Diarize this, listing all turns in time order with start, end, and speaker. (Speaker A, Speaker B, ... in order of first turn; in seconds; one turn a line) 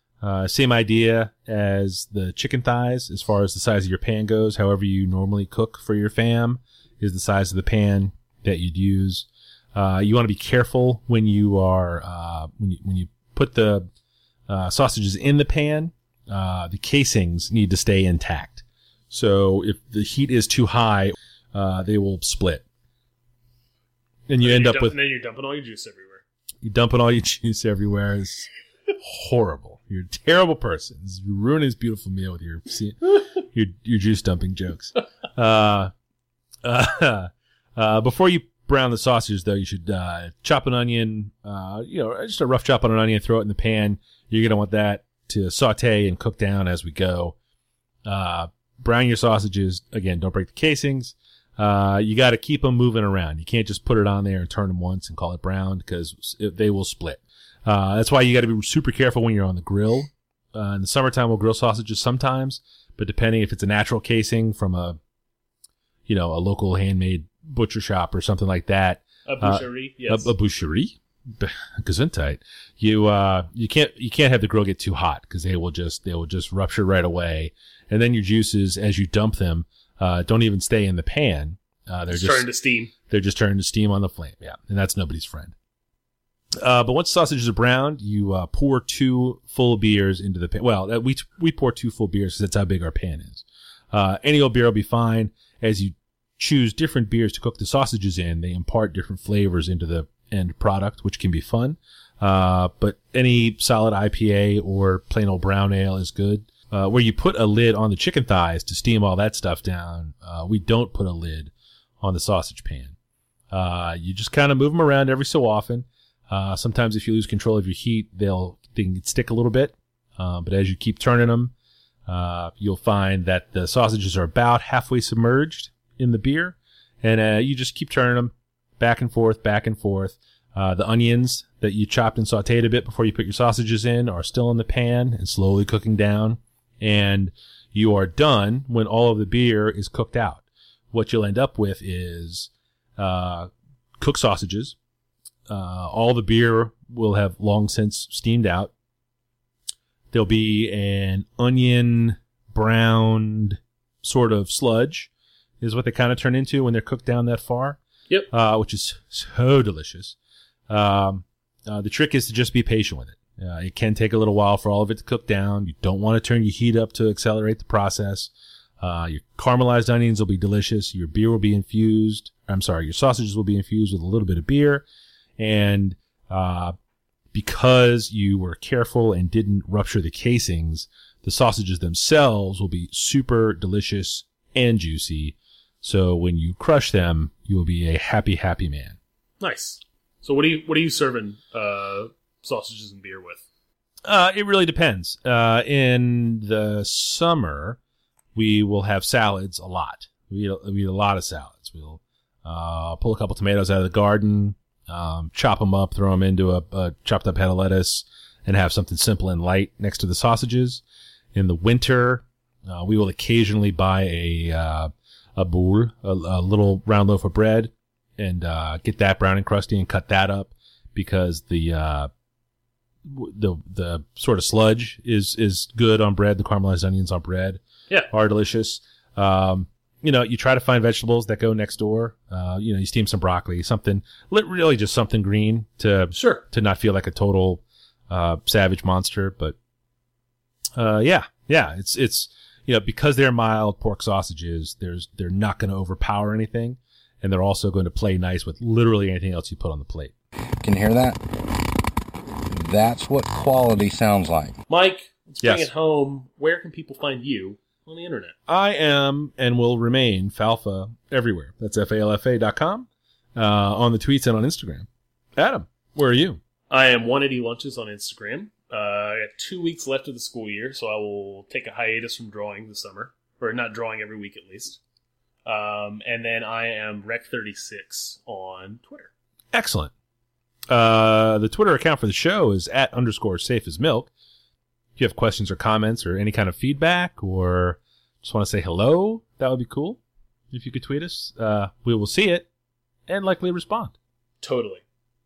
Speaker A: 0.2-13.9
Speaker A: 14.5-22.6
Speaker A: 24.3-25.0
Speaker B: 24.4-26.2
Speaker A: 26.6-28.5
Speaker A: 29.0-35.9
Speaker A: 36.6-47.4
Speaker A: 48.0-65.0
Speaker A: 66.1-82.5
Speaker B: 69.2-70.3
Speaker B: 82.1-82.9
Speaker A: 83.1-85.5
Speaker A: 86.6-113.0
Speaker A: 113.5-121.5
Speaker A: 122.1-144.8
Speaker A: 145.5-148.7
Speaker A: 150.1-155.1
Speaker A: 155.6-160.2
Speaker A: 160.7-174.8
Speaker A: 175.4-176.8
Speaker A: 177.3-189.0
Speaker B: 189.4-193.4
Speaker A: 194.1-197.8
Speaker A: 198.3-210.8
Speaker A: 211.3-222.1
Speaker A: 223.1-239.6
Speaker B: 236.1-236.4
Speaker A: 240.8-250.1
Speaker C: 250.6-251.3
Speaker C: 252.5-254.6
Speaker B: 254.7-258.3
Speaker A: 255.4-255.7
Speaker A: 258.5-266.4
Speaker B: 266.7-274.8
Speaker B: 275.4-279.1
Speaker A: 279.5-279.9
Speaker A: 280.7-284.1
Speaker A: 285.0-290.0
Speaker A: 290.5-292.5
Speaker A: 293.1-293.9
Speaker B: 294.4-294.8